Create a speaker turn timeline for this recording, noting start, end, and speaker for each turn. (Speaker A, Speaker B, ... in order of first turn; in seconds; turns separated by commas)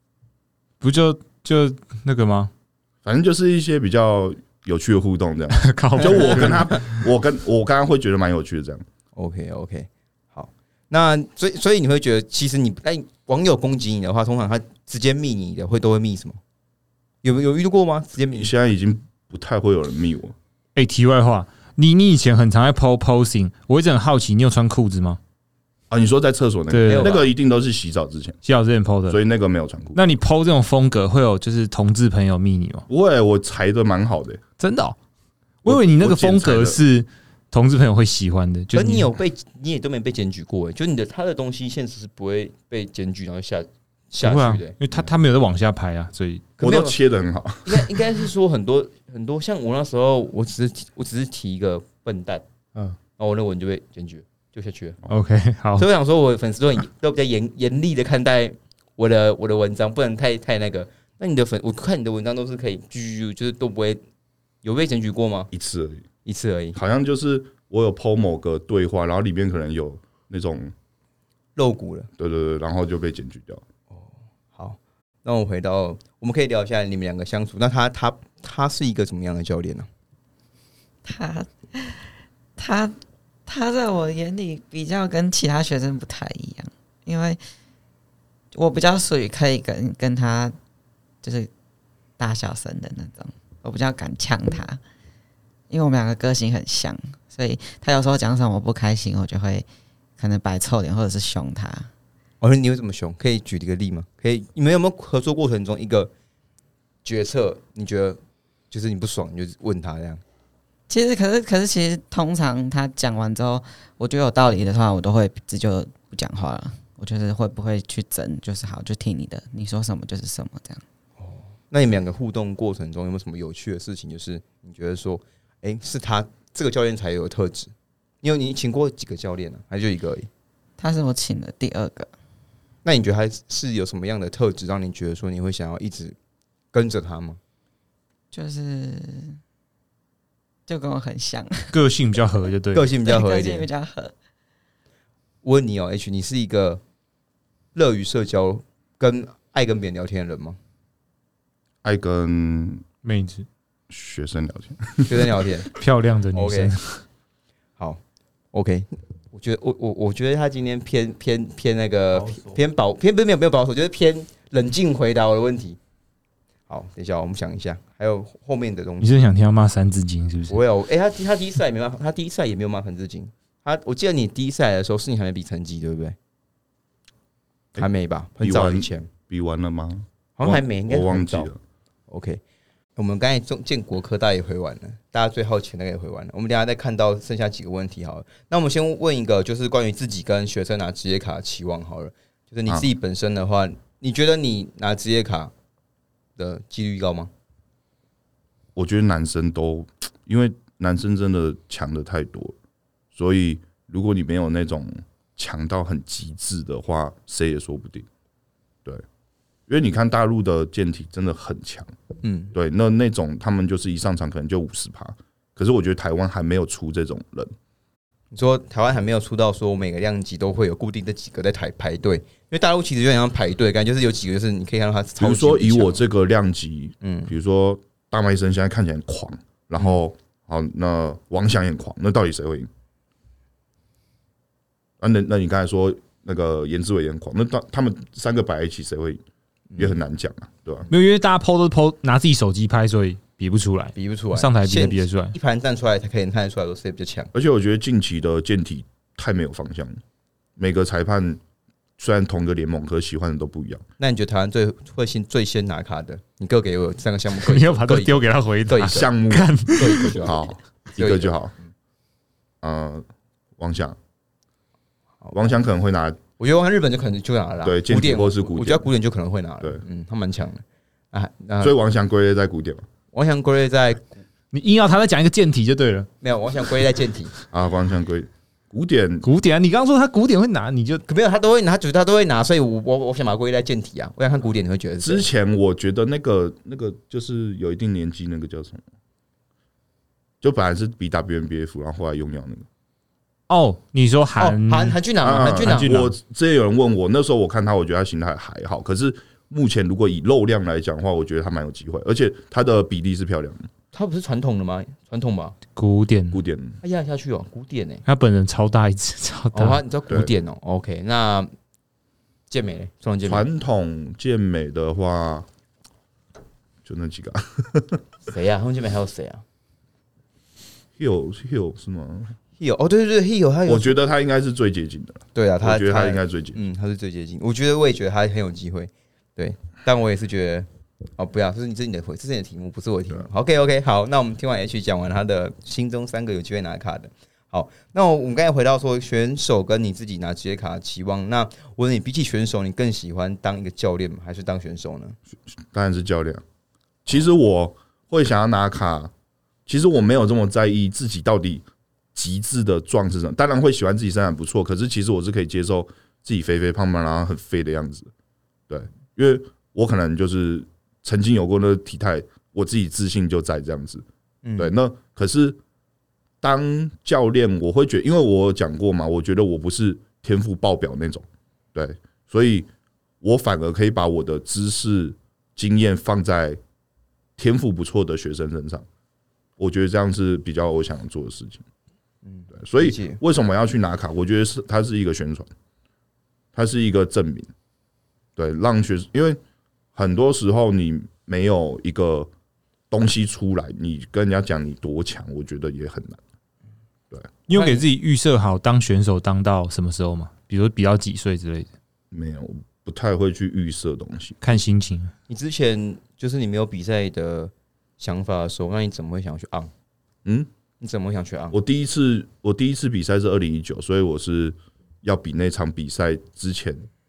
Speaker A: 0.8-2.5, Speaker B: 3.0-8.8, Speaker A: 5.5-7.0, Speaker C: 6.0-6.6, Speaker C: 9.1-16.4, Speaker C: 17.2-18.5, Speaker B: 18.3-20.3, Speaker A: 20.8-25.2, Speaker B: 25.9-28.4, Speaker A: 26.7-27.2, Speaker C: 26.9-27.3, Speaker A: 28.4-29.2, Speaker B: 29.1-30.0, Speaker A: 29.9-32.9, Speaker B: 32.9-34.4, Speaker A: 34.6-35.0, Speaker A: 35.6-39.1, Speaker B: 35.6-36.8, Speaker C: 38.7-45.1, Speaker A: 44.2-46.5, Speaker C: 46.6-47.0, Speaker B: 46.6-48.0, Speaker C: 47.6-52.4, Speaker C: 53.2-55.0, Speaker A: 55.1-55.9, Speaker C: 55.8-64.0, Speaker C: 64.6-65.5, Speaker B: 65.5-66.0, Speaker C: 66.2-66.8, Speaker B: 66.7-70.7, Speaker C: 71.5-72.1, Speaker B: 72.2-73.6, Speaker C: 73.9-79.9, Speaker D: 81.0-82.0, Speaker D: 82.6-83.0, Speaker D: 83.5-87.4, Speaker D: 88.5-90.5, Speaker D: 91.2-91.5, Speaker D: 92.2-94.8, Speaker D: 95.7-99.7, Speaker D: 100.2-101.9, Speaker C: 102.4-106.1, Speaker C: 107.0-108.2, Speaker C: 108.7-110.2, Speaker D: 110.9-120.8, Speaker C: 121.2-130.3, Speaker D: 130.8-132.1, Speaker C: 132.8-136.2, Speaker C: 136.7-137.4, Speaker D: 138.3-139.4, Speaker D: 140.7-141.7, Speaker A: 141.7-142.9, Speaker C: 142.7-143.7, Speaker D: 143.0-144.1, Speaker C: 145.4-146.8, Speaker C: 147.7-150.6, Speaker B: 151.8-152.8, Speaker A: 153.0-153.4, Speaker B: 153.9-155.2, Speaker C: 155.1-155.7, Speaker A: 155.7-157.0, Speaker C: 156.3-156.7, Speaker C: 158.5-165.8, Speaker C: 166.7-169.2, Speaker A: 169.0-170.6, Speaker C: 170.5-176.2, Speaker C: 177.8-179.1, Speaker B: 178.4-181.6, Speaker C: 180.4-181.5, Speaker C: 182.1-182.4, Speaker C: 182.9-195.5, Speaker C: 196.4-197.3, Speaker B: 198.8-202.5, Speaker B: 203.1-208.1, Speaker B: 209.7-211.9, Speaker C: 212.2-212.5, Speaker B: 212.5-217.5, Speaker C: 218.3-226.0, Speaker B: 225.2-232.7, Speaker C: 227.0-227.3, Speaker B: 235.0-239.2, Speaker B: 239.8-240.9, Speaker A: 240.9-245.3, Speaker C: 243.9-247.3, Speaker B: 247.3-250.0, Speaker B: 250.6-251.4, Speaker B: 252.0-253.8, Speaker C: 254.0-259.1, Speaker A: 257.4-260.1, Speaker B: 258.8-261.5, Speaker C: 259.6-261.3, Speaker B: 262.6-263.1, Speaker B: 263.6-264.0, Speaker C: 265.2-265.6, Speaker B: 265.3-266.2, Speaker C: 266.4-271.8, Speaker B: 267.6-268.9, Speaker B: 271.6-272.8, Speaker C: 273.1-274.2, Speaker A: 274.5-276.1, Speaker C: 276.2-277.3, Speaker B: 277.5-279.2, Speaker A: 279.2-281.0, Speaker C: 281.1-285.3, Speaker B: 285.0-288.8, Speaker B: 290.4-292.6, Speaker A: 293.5-296.1, Speaker C: 294.4-296.0, Speaker B: 295.2-303.7, Speaker C: 303.9-305.6, Speaker A: 305.8-306.4, Speaker B: 306.3-306.8, Speaker C: 306.8-308.0, Speaker A: 308.1-309.8, Speaker C: 309.5-311.5, Speaker C: 312.5-313.4, Speaker B: 313.2-315.5, Speaker B: 316.8-318.0, Speaker C: 318.2-319.4, Speaker B: 321.0-322.3, Speaker C: 322.6-324.0, Speaker B: 323.7-326.6, Speaker C: 325.3-345.2, Speaker B: 345.6-346.4, Speaker B: 347.0-349.1, Speaker B: 349.6-358.1, Speaker B: 358.7-364.0, Speaker C: 364.4-364.8, Speaker B: 364.6-365.6, Speaker B: 366.4-372.7, Speaker B: 373.2-376.6, Speaker B: 377.4-378.9, Speaker B: 379.6-381.6, Speaker C: 382.2-383.2, Speaker B: 382.5-385.5, Speaker B: 386.5-387.5, Speaker B: 388.4-389.4, Speaker B: 389.9-392.3, Speaker B: 392.9-396.2, Speaker A: 397.5-401.7, Speaker C: 397.5-397.8, Speaker B: 402.1-404.4, Speaker A: 404.4-405.1, Speaker C: 405.3-409.7, Speaker C: 410.8-411.6, Speaker B: 411.5-416.9